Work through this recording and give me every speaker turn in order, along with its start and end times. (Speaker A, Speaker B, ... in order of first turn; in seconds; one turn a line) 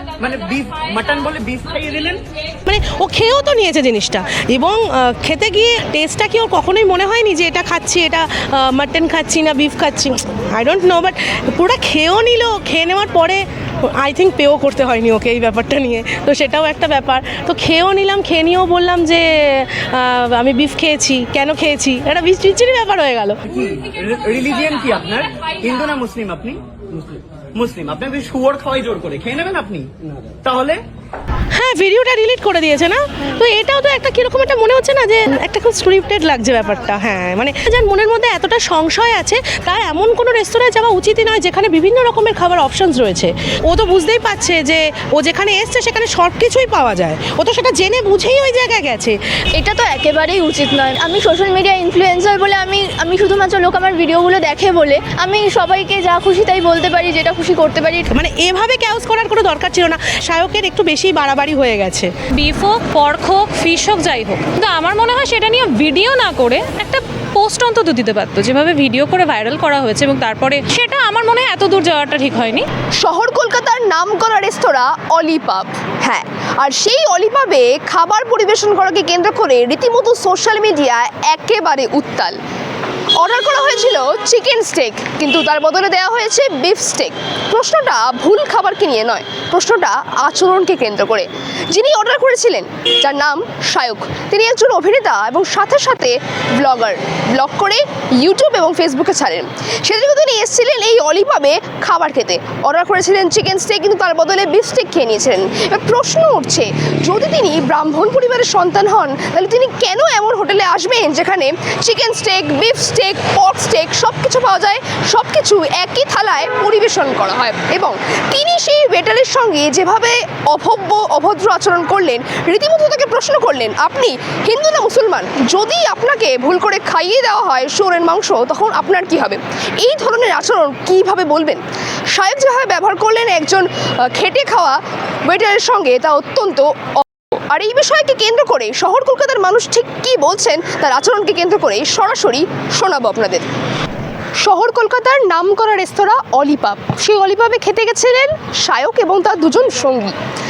Speaker A: 0.2-2.2
Speaker B: 2.7-13.4
Speaker B: 14.0-23.4
Speaker A: 23.5-30.8
Speaker B: 31.5-49.2
Speaker C: 49.5-58.1
Speaker B: 58.1-62.1
Speaker D: 62.4-72.7
Speaker E: 73.0-82.4
Speaker E: 83.2-143.5
Speaker E: 144.4-150.2